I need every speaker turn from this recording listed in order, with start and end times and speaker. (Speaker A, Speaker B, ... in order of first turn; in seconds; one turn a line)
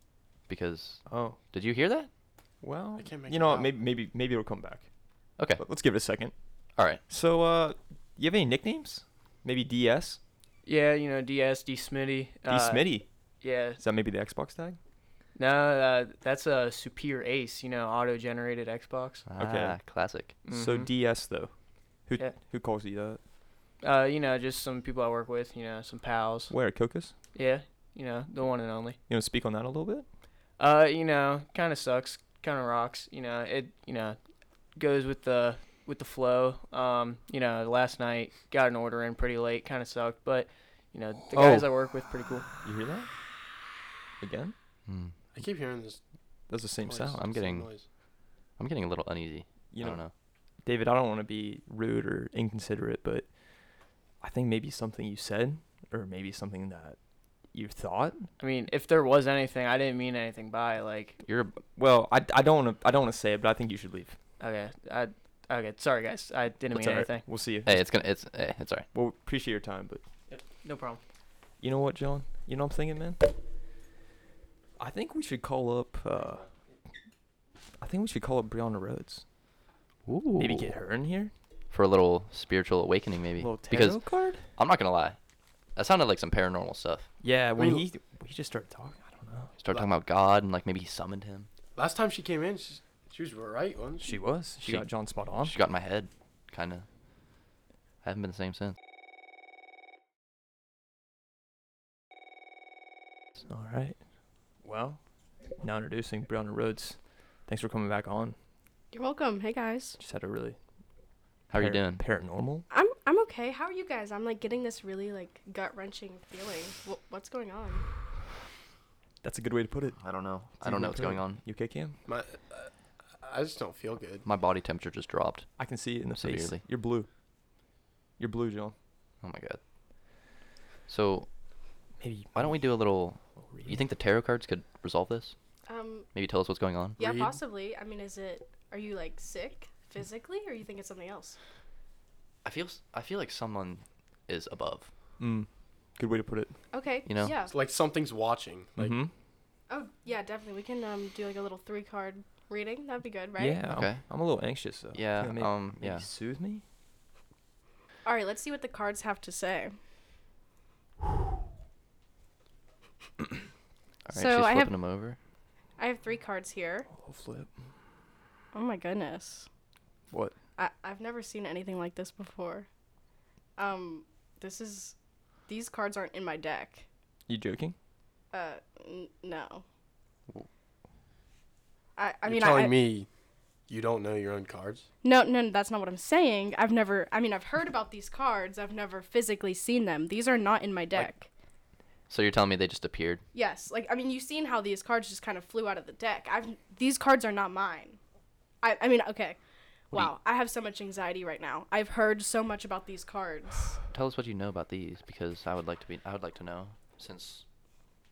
Speaker A: 0.5-2.1
Speaker B: 1.1-1.4
Speaker B: 2.6-4.9
Speaker C: 3.0-3.8
Speaker B: 5.5-6.3
Speaker A: 6.8-7.0
Speaker B: 7.1-10.2
Speaker D: 10.7-13.8
Speaker B: 12.5-13.1
Speaker B: 13.8-14.8
Speaker D: 15.3-19.3
Speaker A: 19.3-20.4
Speaker B: 19.4-19.8
Speaker D: 20.4-20.9
Speaker B: 20.5-23.2
Speaker D: 23.8-26.5
Speaker B: 26.5-27.2
Speaker D: 27.3-29.0
Speaker B: 29.1-30.1
Speaker D: 30.6-34.2
Speaker D: 34.7-42.5
Speaker B: 41.3-41.7
Speaker B: 42.6-43.1
Speaker B: 44.2-44.5
Speaker A: 44.9-45.1
Speaker C: 45.3-46.0
Speaker B: 46.5-47.3
Speaker C: 46.7-47.9
Speaker A: 47.2-47.8
Speaker A: 48.6-50.1
Speaker B: 49.7-50.0
Speaker B: 50.6-53.4
Speaker B: 54.2-57.0
Speaker B: 57.5-58.3
Speaker D: 58.4-61.2
Speaker A: 61.2-61.6
Speaker B: 61.7-64.2
Speaker D: 64.4-67.3
Speaker B: 66.7-67.9
Speaker A: 67.7-68.9
Speaker B: 68.9-70.0
Speaker D: 70.3-71.0
Speaker B: 71.6-73.2
Speaker B: 74.8-76.5
Speaker B: 77.8-79.2
Speaker A: 80.0-80.7
Speaker B: 80.4-81.3
Speaker A: 81.7-84.0
Speaker B: 83.4-84.4
Speaker A: 84.6-85.2
Speaker A: 85.8-87.1
Speaker B: 87.2-89.5
Speaker C: 87.5-87.8
Speaker A: 89.6-91.5
Speaker C: 91.8-94.2
Speaker B: 94.0-95.5
Speaker A: 95.4-96.8
Speaker A: 98.0-98.8
Speaker B: 103.4-104.0
Speaker B: 104.6-105.0
Speaker B: 105.6-108.3
Speaker E: 108.9-110.0
Speaker B: 110.0-110.6
Speaker A: 111.5-112.0
Speaker B: 111.5-112.6
Speaker E: 112.7-117.8
Speaker B: 119.2-120.0
Speaker A: 120.0-121.4
Speaker B: 120.6-122.0
Speaker C: 122.0-124.2
Speaker A: 124.2-125.5
Speaker B: 125.6-127.1
Speaker A: 126.1-126.6
Speaker B: 128.2-128.7
Speaker A: 129.2-129.6
Speaker A: 130.9-131.3
Speaker B: 132.0-132.7
Speaker A: 132.3-135.3
Speaker B: 133.4-133.8
Speaker E: 135.7-136.1
Speaker A: 136.1-137.0
Speaker E: 137.0-141.4
Speaker C: 137.0-137.4
Speaker A: 142.4-144.9
Speaker B: 145.2-146.5
Speaker E: 146.7-147.5
Speaker A: 147.0-147.3
Speaker C: 147.4-149.0
Speaker B: 148.8-149.1
Speaker E: 149.7-153.6
Speaker B: 153.4-156.6
Speaker A: 153.7-154.0
Speaker A: 154.9-156.1
Speaker E: 158.0-159.8
Speaker A: 164.1-165.2
Speaker E: 164.1-164.9
Speaker E: 165.8-166.9
Speaker B: 166.9-167.5
Speaker E: 168.5-169.5
Speaker E: 170.6-172.7
Speaker E: 173.6-174.9
Speaker E: 175.5-176.8
Speaker B: 177.3-177.7
Speaker E: 178.3-179.6
Speaker E: 182.0-182.8
Speaker C: 182.2-183.1
Speaker C: 183.7-184.9
Speaker E: 185.0-191.3
Speaker A: 192.1-193.2
Speaker E: 193.3-198.0
Speaker E: 198.6-199.4
Speaker E: 199.9-203.8
Speaker A: 203.9-207.4